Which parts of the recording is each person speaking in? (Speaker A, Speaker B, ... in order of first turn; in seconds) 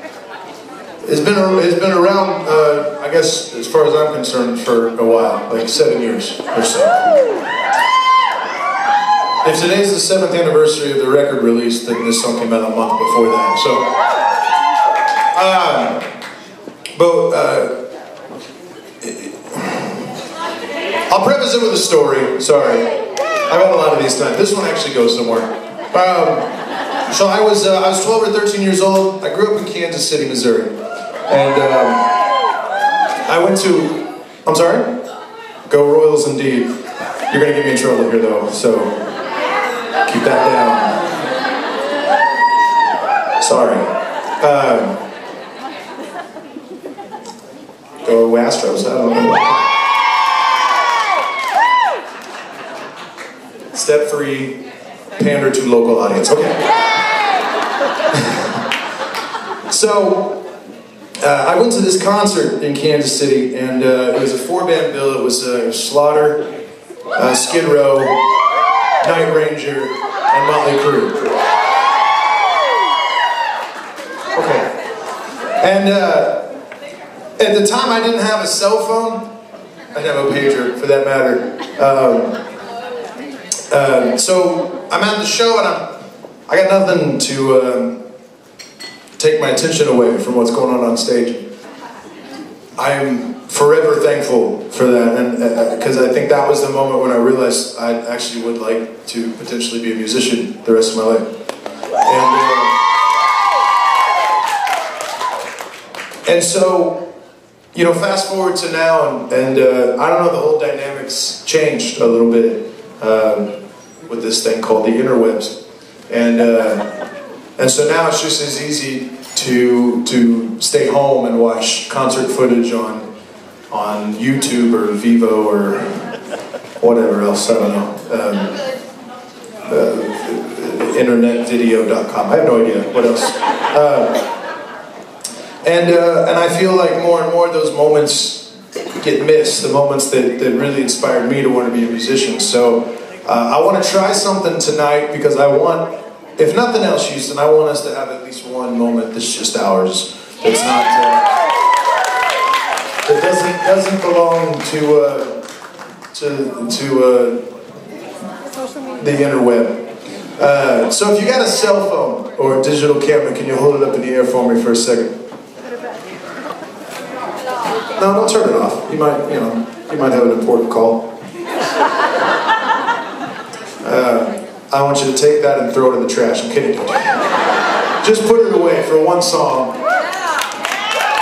Speaker A: 1.0-7.0, 9.4-13.9, 15.3-16.1, 16.9-17.8, 19.0-20.1, 21.1-22.9, 23.5-26.5, 27.1-32.1, 33.3-35.0, 35.7-39.0, 40.0-41.0, 43.4-45.0, 48.0-49.6, 53.7-54.6, 55.2-56.7, 58.1-58.5, 59.7-60.4, 61.2-66.4, 67.1-68.2, 69.0-71.3, 74.3-74.7, 75.6-76.5, 77.4-79.3, 79.9-82.4, 83.7-85.9, 86.5-88.0, 89.2-91.4, 92.8-101.3, 102.0-102.8, 106.2-107.1, 107.7-113.5, 114.0-116.8, 117.6-123.1, 123.7-126.1, 126.8-128.6, 129.6-134.2, 135.6-151.3, 153.0-155.4, 156.1-157.4, 159.0-165.2, 168.0-171.1, 173.8-177.2, 178.0-179.8